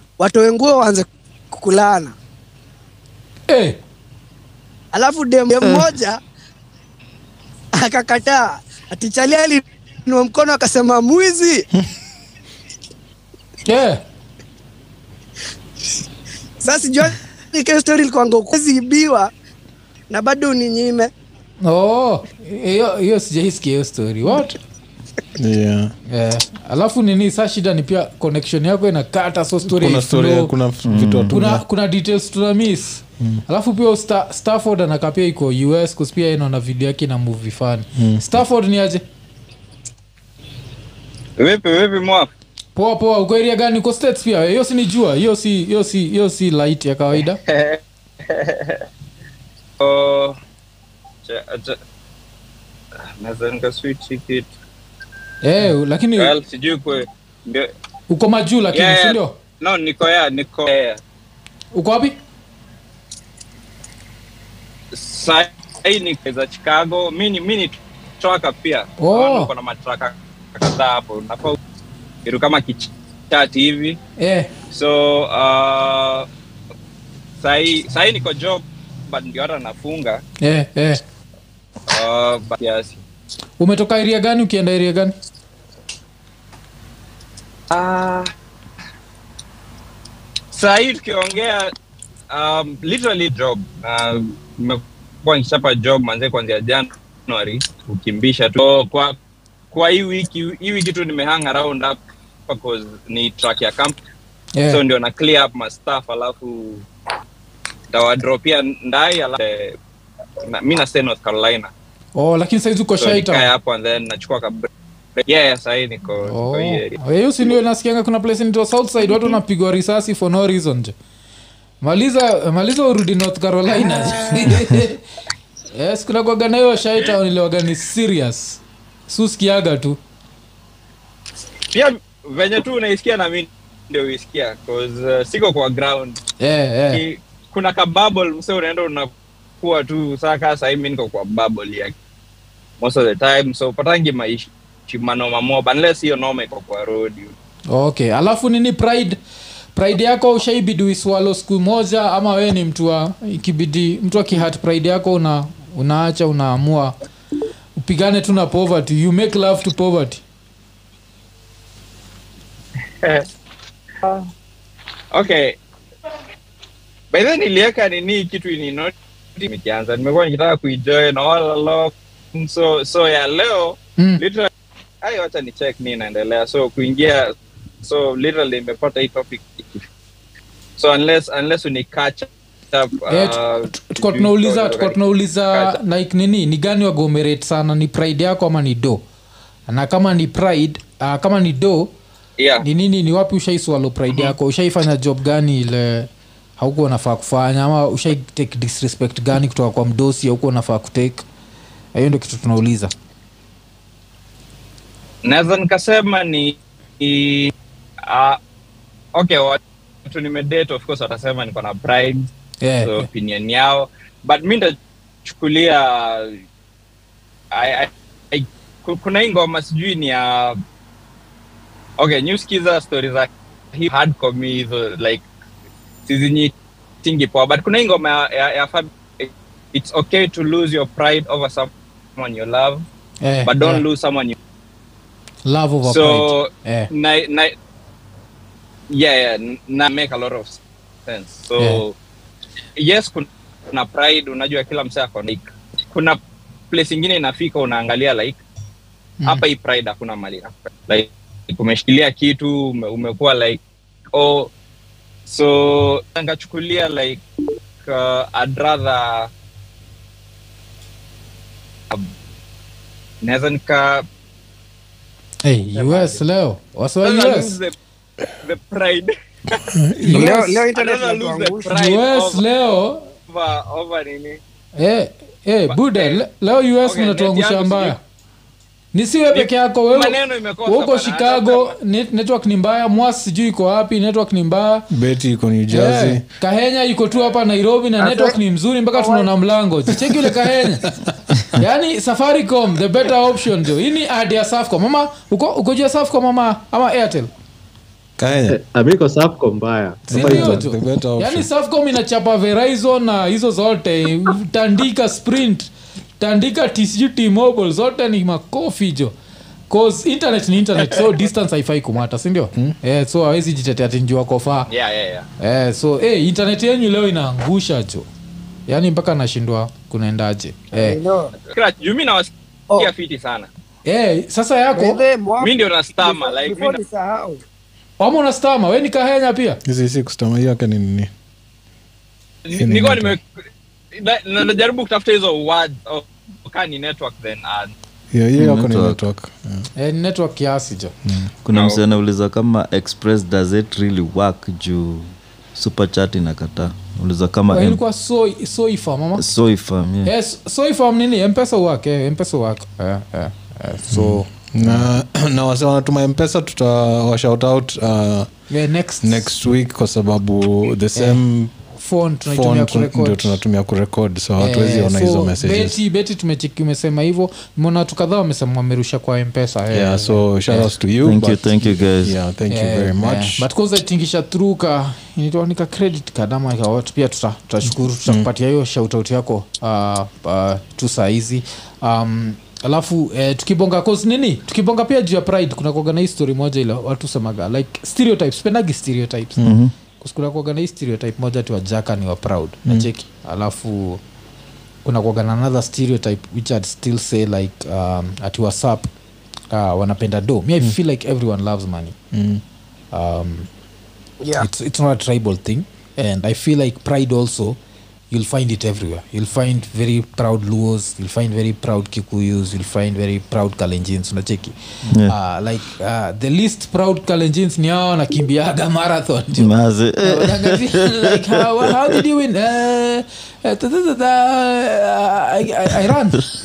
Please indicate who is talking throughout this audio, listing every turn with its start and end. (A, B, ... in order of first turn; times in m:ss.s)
0:00.2-0:02.1 A
0:03.5-0:03.8 B
0:04.9-0:06.2 A
0:07.7-0:11.6 A
0:13.6-0:14.0 B
0:16.6-0:19.3 A
0:20.1-0:21.1 A
0:21.6-0:24.6 B
0:25.4-0:25.9 C
0:26.1-0:30.5 B
0:29.6-0:31.6 C
0:30.8-0:31.3 D
0:31.3-0:39.0 B
0:38.0-0:38.2 C
0:41.4-0:42.3 E
0:42.8-0:47.4 B
0:47.3-0:48.8 E
0:49.8-0:50.4 E
0:51.2-0:51.8 E
0:53.2-0:54.5 E
0:55.4-0:56.3 B
0:56.2-0:57.7 E
0:58.1-0:59.3 B
0:58.7-1:01.0 E
1:01.7-1:02.2 B
1:04.9-1:11.6 E
1:09.0-1:09.5 B
1:12.2-1:14.0 E
1:14.2-1:14.5 B
1:14.7-1:16.3 E
1:17.4-1:20.2 E
1:20.4-1:21.0 B
1:21.9-1:23.0 E
1:23.6-1:25.1 B
1:27.7-1:28.3 E
1:30.5-1:31.7 E
1:32.3-1:39.2 E
1:39.7-1:42.0 E
1:42.5-1:44.0 E
1:44.6-1:44.8 B
1:44.7-1:46.8 E
1:47.9-1:49.8 E
1:50.4-1:51.7 E
1:52.2-1:53.5 B
1:53.0-1:54.7 E
1:55.2-1:57.0 E
1:56.2-2:00.9 B
2:01.8-2:05.0 B
2:05.7-2:10.0 B
2:11.7-2:16.2 E
2:16.4-2:17.0 B
2:16.9-2:21.9 E
2:22.8-2:27.3 E
2:27.7-2:29.2 B
2:29.8-2:36.9 B
2:37.8-2:40.2 B
2:45.1-2:45.6 E
2:47.1-2:54.5 E
2:55.0-2:59.8 E
3:00.8-3:05.0 E
3:03.1-3:09.0 B
3:09.7-3:11.9 B
3:12.4-3:12.6 E
3:12.6-3:21.2 B
3:21.9-3:22.9 B
3:25.2-3:27.5 E
3:28.1-3:28.4 E
3:29.1-3:32.3 E
3:32.6-3:33.1 B
3:32.8-3:36.4 E
3:37.5-3:40.6 E
3:42.0-3:45.2 E
3:46.1-3:52.8 E
3:53.2-3:53.8 B
3:53.4-3:54.4 E
3:55.4-3:56.9 B
3:55.8-3:57.5 E
3:58.9-4:02.0 E
4:01.6-4:01.8 B
4:02.8-4:06.2 E
4:06.7-4:08.4 E
4:09.2-4:13.6 E
4:14.1-4:14.5 E
4:15.2-4:17.2 E
4:17.8-4:19.3 E
4:23.2-4:24.0 E
4:25.4-4:27.6 B
4:25.7-4:26.2 E
4:27.0-4:27.7 E
4:28.4-4:29.6 E
4:29.7-4:30.3 C
4:30.0-4:30.6 B
4:30.0-4:31.7 A
4:30.7-4:32.4 E
4:31.6-4:33.1 B
4:33.3-4:34.4 E
4:34.8-4:38.0 B
4:35.7-4:36.2 E
4:36.8-4:38.0 E
4:38.9-4:44.9 B
4:39.3-4:41.7 E
4:44.9-4:46.2 C
4:45.7-4:51.0 B
4:48.0-4:48.4 A
4:48.9-4:49.3 A
4:50.0-4:50.5 C
4:51.5-4:57.3 B
4:58.2-4:58.6 C
4:58.5-5:00.7 F
5:00.1-5:01.5 C
5:00.1-5:09.1 B
5:09.7-5:14.7 B
5:14.7-5:15.3 E
5:15.4-5:18.1 B
5:18.7-5:21.0 B
5:20.7-5:21.3 A
5:21.4-5:23.5 E
5:23.8-5:25.0 B
5:24.7-5:27.4 A
5:25.4-5:26.8 E
5:28.0-5:29.6 B
5:29.6-5:31.1 C
5:32.4-5:33.2 E
5:32.6-5:33.2 C
5:33.9-5:37.7 E
5:38.1-5:39.7 C
5:38.4-5:39.0 D
5:39.8-5:40.9 B
5:41.4-5:47.8 D
5:41.5-5:41.8 E
5:47.5-5:49.2 B
5:49.2-5:50.1 D
5:50.0-5:54.9 B
5:53.9-5:58.3 C
5:58.5-5:59.3 B
5:59.0-6:01.5 C
6:01.7-6:03.4 B
6:02.3-6:05.8 C
6:04.4-6:10.7 B
6:09.7-6:13.5 C
6:11.0-6:12.1 D
6:12.5-6:29.4 B
6:29.4-6:29.7 D
6:30.0-6:34.0 B
6:34.8-6:38.9 B
6:39.5-6:42.0 B
6:42.1-6:42.4 C
6:42.9-6:43.5 B
6:44.4-6:47.6 B
6:48.1-6:59.5 B
6:54.9-6:55.1 D
6:59.4-7:01.3 D
7:00.0-7:06.2 B